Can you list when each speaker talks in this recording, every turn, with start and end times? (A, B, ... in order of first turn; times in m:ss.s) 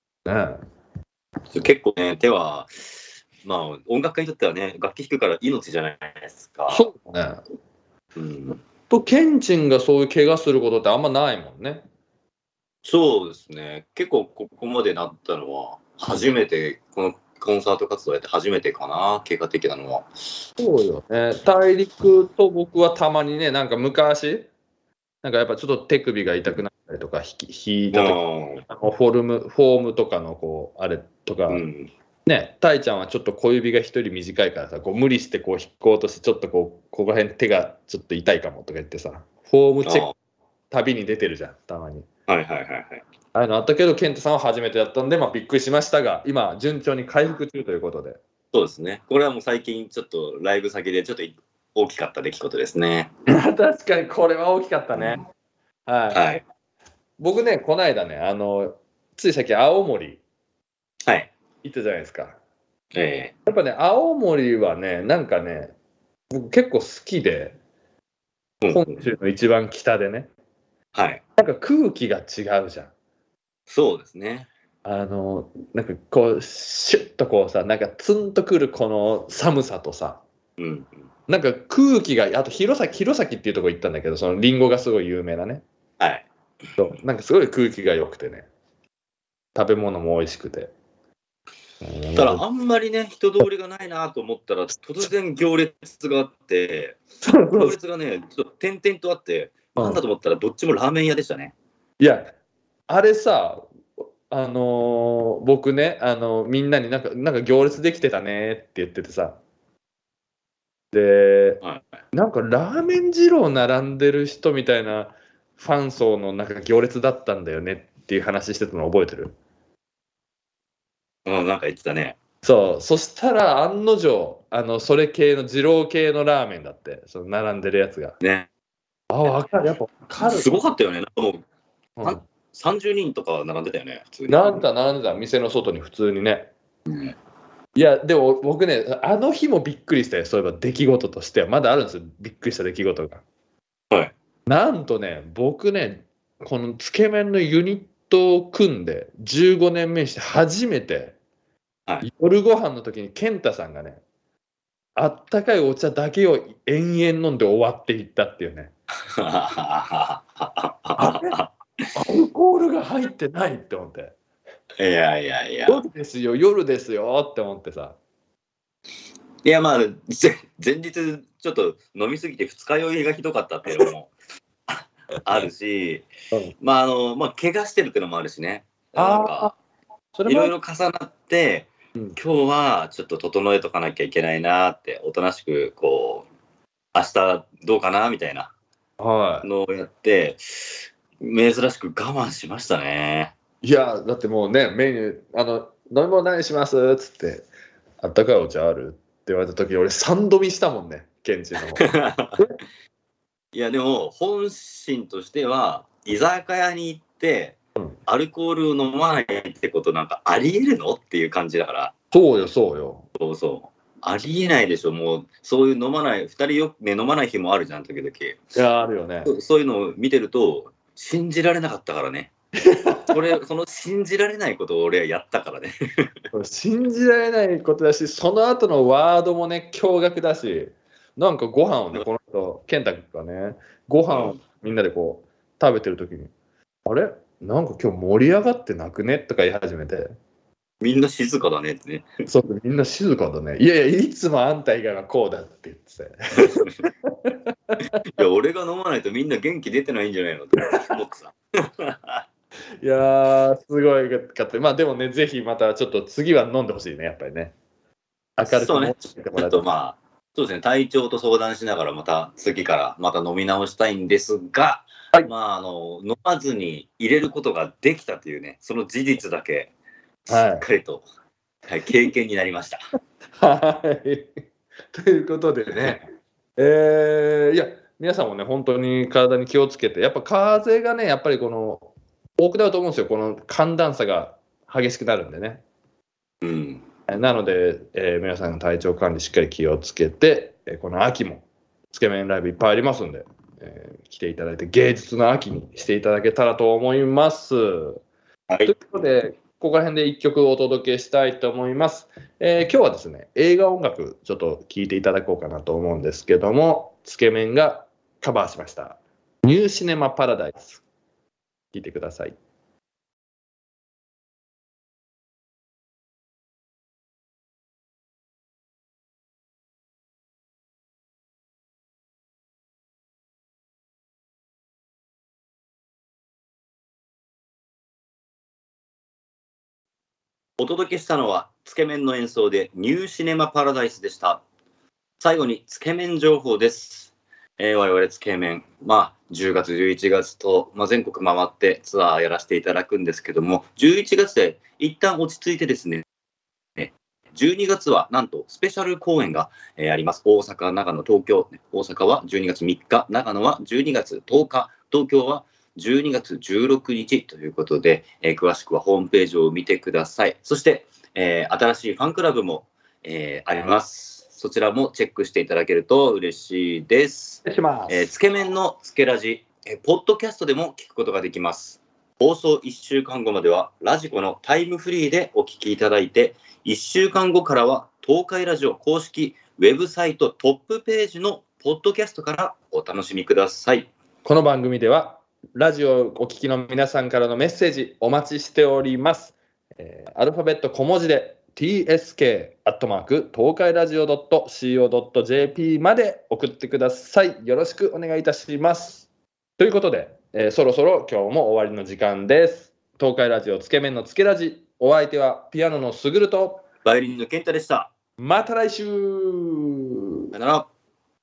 0:00.3-0:00.6 A
0:01.5-0:06.9 B
0:06.7-0:07.4 A
0:08.2-0:08.6 B
0:08.9-0:11.8 A
0:12.8-0:20.1 B
0:20.6-0:24.5 A
0:25.2-0:31.6 A
0:27.9-0:28.6 B
0:31.5-0:31.9 B
0:32.3-0:40.1 A
0:39.8-0:40.1 B
0:40.7-0:42.1 A
0:42.3-0:43.0 B
0:43.3-0:48.2 A
0:48.5-0:53.1 B
0:53.3-0:55.2 A
0:55.0-0:55.2 B
0:55.9-0:56.2 A
0:56.1-0:56.4 B
0:57.2-1:00.2 A
1:01.6-1:02.4 A
1:02.9-1:03.3 B
1:03.5-1:05.8 A
1:06.3-1:07.6 A
1:08.6-1:09.1 B
1:08.7-1:10.3 A
1:10.9-1:11.2 B
1:11.4-1:12.9 A
1:13.7-1:14.5 B
1:14.8-1:20.2 A
1:20.6-1:20.9 B
1:21.3-1:25.6 A
1:26.0-1:26.3 B
1:26.8-1:28.5 A
1:29.6-1:30.7 A
1:31.8-1:32.4 A
1:32.1-1:37.0 B
1:37.2-1:37.8 A
1:37.5-1:41.5 B
1:39.8-1:40.0 A
1:42.0-1:42.3 A
1:42.9-1:43.6 A
1:44.3-1:49.4 A
1:50.9-1:51.6 A
1:52.1-1:59.4 A
2:01.3-2:02.2 B
2:02.4-2:08.2 A
2:08.2-2:08.5 B
2:09.1-2:10.5 A
2:09.2-2:09.5 B
2:10.2-2:11.4 B
2:12.0-2:12.2 A
2:12.0-2:14.6 B
2:14.3-2:16.5 A
2:16.9-2:17.2 B
2:17.8-2:23.2 A
2:24.5-2:31.2 A
2:32.0-2:34.0 A
2:35.0-2:38.7 A
2:39.2-2:41.6 B
2:41.0-2:41.4 A
2:42.0-2:44.2 A
2:44.8-2:45.8 B
2:45.7-2:48.0 A
2:49.4-2:54.1 B
2:54.7-2:56.1 B
2:56.6-2:59.5 B
2:59.0-2:59.5 A
3:00.2-3:00.5 A
3:00.3-3:06.3 B
3:06.9-3:08.5 B
3:09.0-3:09.5 A
3:09.4-3:13.3 B
3:13.6-3:17.5 A
3:18.0-3:22.6 A
3:21.8-3:22.4 B
3:23.5-3:31.9 B
3:32.1-3:33.1 A
3:33.2-3:38.4 B
3:38.6-3:39.3 A
3:39.2-3:42.3 B
3:42.7-3:43.1 A
3:43.1-3:46.1 B
3:46.3-3:56.3 A
3:54.1-3:54.4 B
3:56.9-4:00.1 A
4:00.8-4:02.1 B
4:02.3-4:07.9 A
4:06.4-4:06.7 B
4:08.2-4:12.2 B
4:12.8-4:17.5 A
4:18.4-4:19.7 A
4:18.5-4:29.7 B
4:30.3-4:31.0 B
4:30.3-4:30.7 A
4:31.7-4:32.8 B
4:33.4-4:34.3 A
4:34.9-4:36.1 A
4:35.7-4:36.0 B
4:36.6-4:45.6 A
4:46.4-4:46.8 B
4:47.1-4:58.0 A
4:58.6-5:10.8 A
5:11.7-5:12.4 A
5:30.6-5:34.4 B
5:35.2-5:46.0 B
5:46.8-6:23.9 B
6:07.4-6:08.1 A
6:24.2-6:46.6 A
6:46.8-6:47.9 B
6:48.2-6:49.8 A
6:50.3-6:50.7 B